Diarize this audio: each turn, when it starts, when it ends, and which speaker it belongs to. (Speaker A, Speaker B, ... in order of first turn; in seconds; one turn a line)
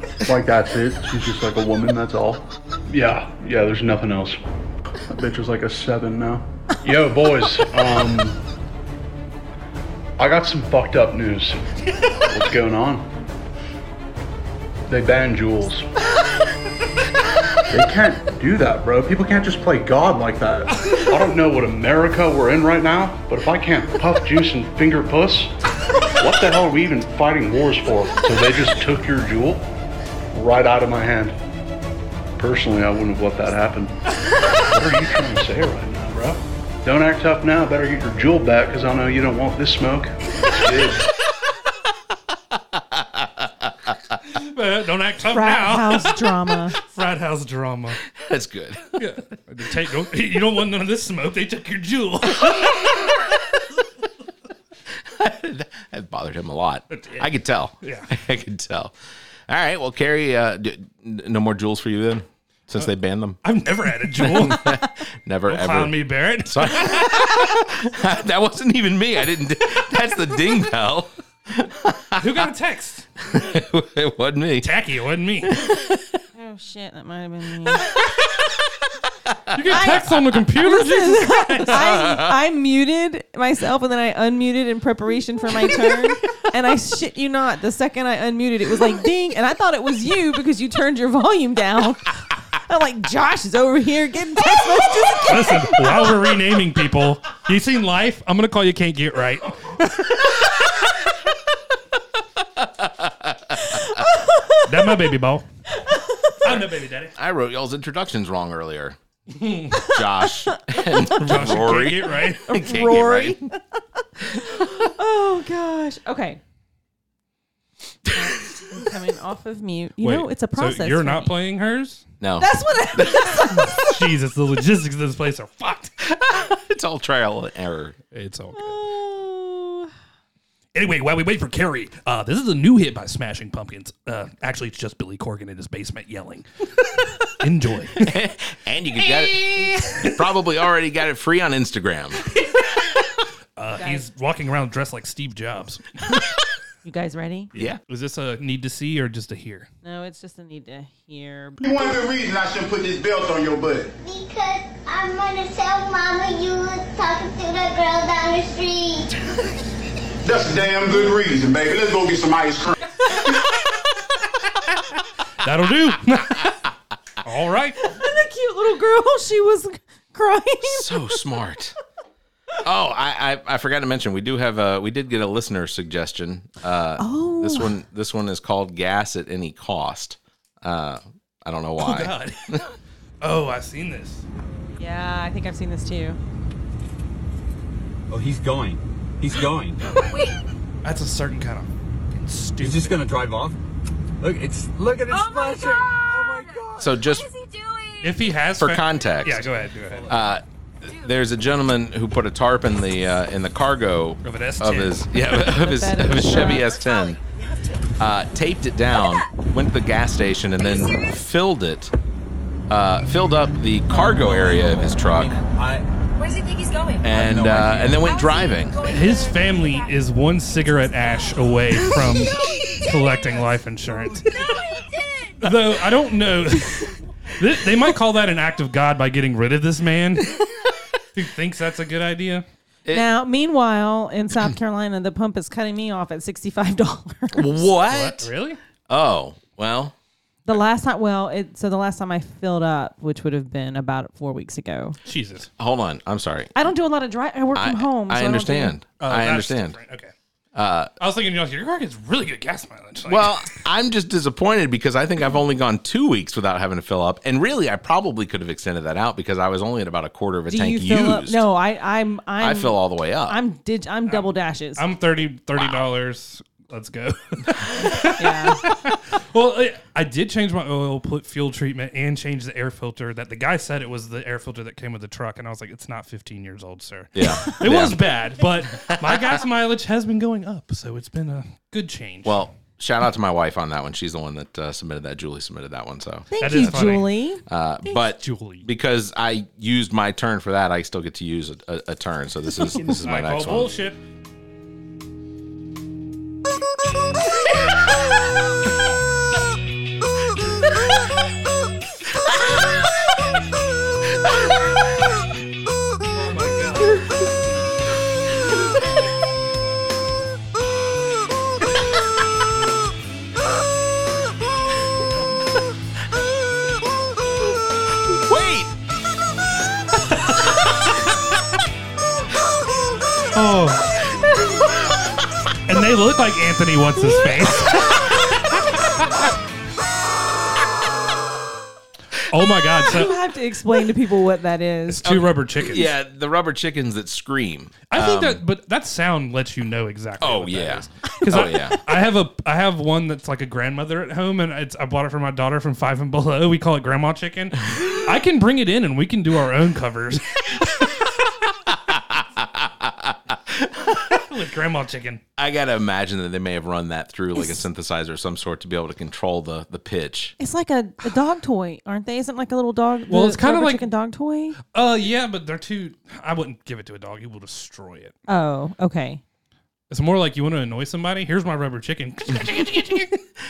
Speaker A: 0.2-4.4
Speaker A: 5.1-8.4
Speaker A: 10.2-11.6
Speaker A: 12.2-13.1
Speaker A: 14.9-15.9
Speaker A: 17.7-25.5
Speaker A: 26.2-29.6
Speaker A: 30.3-31.4
Speaker A: 32.4-33.9
Speaker A: 34.7-41.1
Speaker B: 43.0-43.5
Speaker C: 44.3-48.0
Speaker D: 45.3-46.8
Speaker B: 48.2-49.0
Speaker C: 49.0-52.9
Speaker B: 55.1-58.9
Speaker C: 56.9-57.3
Speaker C: 57.8-58.1
Speaker B: 59.5-63.4
Speaker C: 63.4-64.9
Speaker B: 64.2-72.3
Speaker C: 65.5-67.1
Speaker C: 72.2-73.1
Speaker B: 73.3-74.7
Speaker C: 74.6-75.6
Speaker D: 76.3-77.9
Speaker B: 79.5-79.8
Speaker C: 79.5-81.8
Speaker D: 79.7-96.1
Speaker B: 81.7-82.4
Speaker C: 95.3-100.3
Speaker B: 102.6-103.5
Speaker D: 104.0-104.6
Speaker C: 104.7-105.5
Speaker D: 105.8-106.4
Speaker C: 106.4-107.1
Speaker B: 107.2-109.0
Speaker C: 109.3-109.9
Speaker B: 109.8-113.4
Speaker C: 111.2-112.6
Speaker D: 112.5-113.6
Speaker D: 114.3-116.4
Speaker D: 118.1-121.3
Speaker C: 120.0-122.1
Speaker B: 122.2-123.5
Speaker D: 122.4-123.9
Speaker C: 123.5-125.9
Speaker B: 126.0-128.0
Speaker C: 128.1-128.8
Speaker D: 128.6-129.9
Speaker C: 130.7-136.5
Speaker C: 137.4-138.2
Speaker B: 138.0-142.2
Speaker C: 139.0-140.2
Speaker C: 143.6-145.9
Speaker D: 143.8-144.1
Speaker D: 146.8-147.5
Speaker C: 147.6-149.7
Speaker D: 149.8-151.7
Speaker E: 151.6-153.9
Speaker F: 154.0-159.2
Speaker E: 160.2-162.8
Speaker C: 165.4-166.6
Speaker C: 167.2-167.9
Speaker D: 167.8-171.2
Speaker B: 170.7-171.8
Speaker B: 172.6-182.6
Speaker D: 177.0-177.8
Speaker C: 181.8-182.6
Speaker C: 183.2-184.2
Speaker D: 184.8-186.2
Speaker G: 188.1-190.3
Speaker C: 190.8-191.7
Speaker C: 192.2-193.0
Speaker G: 192.6-193.6
Speaker G: 194.2-196.9
Speaker B: 196.8-197.3
Speaker C: 198.0-200.1
Speaker B: 198.6-199.5
Speaker B: 200.1-207.2
Speaker C: 204.2-205.2
Speaker D: 205.4-206.7
Speaker B: 208.0-211.9
Speaker B: 212.7-215.4
Speaker G: 213.9-215.9
Speaker H: 216.3-217.0
Speaker B: 217.0-218.8
Speaker G: 217.1-218.1
Speaker H: 218.2-219.5
Speaker C: 218.8-224.5
Speaker C: 225.4-230.4
Speaker C: 231.1-232.4
Speaker D: 232.9-237.7
Speaker B: 237.3-238.3
Speaker C: 237.9-238.6
Speaker B: 238.9-239.9
Speaker D: 240.5-245.0
Speaker C: 245.1-245.5
Speaker B: 245.6-246.5
Speaker D: 246.6-248.8
Speaker B: 247.6-249.8
Speaker C: 249.0-250.1
Speaker B: 250.6-250.9
Speaker C: 251.0-253.5
Speaker B: 253.1-261.4
Speaker D: 260.5-264.8
Speaker B: 262.4-263.4
Speaker C: 264.1-282.5
Speaker B: 265.6-265.9
Speaker D: 268.2-268.6
Speaker B: 277.1-278.1
Speaker B: 282.2-286.9
Speaker D: 286.3-287.9
Speaker C: 286.4-287.1
Speaker B: 287.5-293.7
Speaker C: 288.2-288.7
Speaker C: 292.8-294.0
Speaker C: 306.1-307.0
Speaker B: 318.1-318.7
Speaker C: 323.3-323.9
Speaker C: 325.7-328.1
Speaker C: 332.3-333.2
Speaker D: 332.9-335.1
Speaker C: 334.9-335.9
Speaker B: 335.1-338.4
Speaker C: 337.9-350.6
Speaker B: 340.2-341.8
Speaker B: 351.9-354.0
Speaker C: 354.1-355.2
Speaker B: 355.4-360.3
Speaker D: 360.4-364.6
Speaker C: 363.1-363.9
Speaker C: 364.7-368.1
Speaker D: 368.3-369.2
Speaker C: 369.9-373.2
Speaker B: 372.7-373.1